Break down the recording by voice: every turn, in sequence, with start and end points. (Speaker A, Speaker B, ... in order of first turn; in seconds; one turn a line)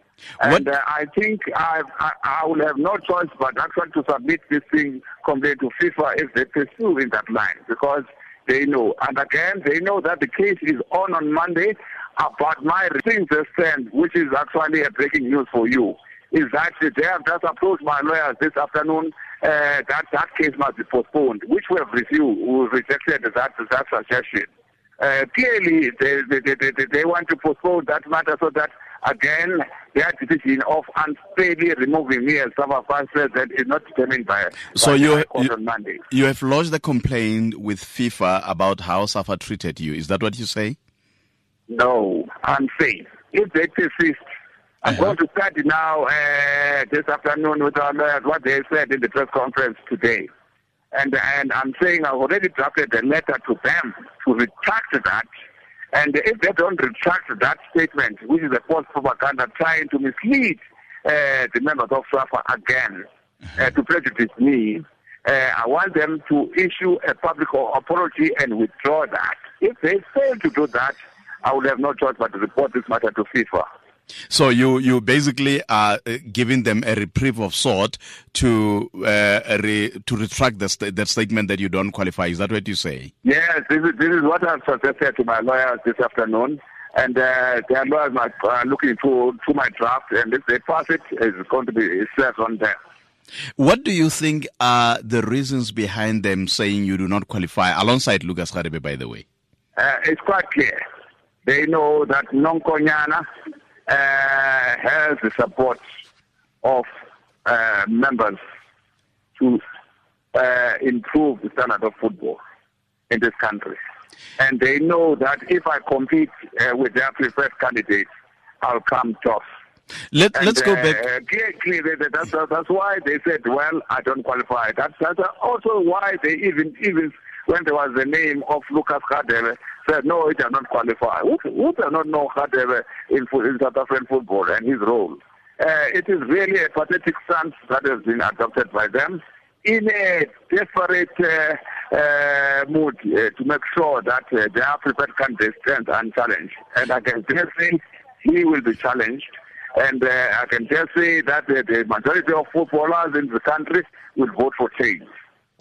Speaker A: 0.4-36.0
Speaker B: 34.8-35.5
Speaker B: 36.1-40.8
Speaker A: 41.7-44.2
Speaker A: 44.8-50.3
Speaker A: 50.9-55.3
Speaker A: 55.9-73.7
Speaker B: 74.3-83.1
Speaker A: 83.2-92.8
Speaker B: 93.6-99.2
Speaker A: 99.8-100.8
Speaker A: 101.5-103.2
Speaker A: 103.9-105.8
Speaker A: 106.6-106.9
Speaker A: 107.5-108.4
Speaker A: 109.4-109.6
Speaker A: 110.3-112.4
Speaker A: 113.1-113.8
Speaker A: 114.4-118.1
Speaker A: 118.6-119.4
Speaker B: 120.1-121.0
Speaker A: 120.3-155.1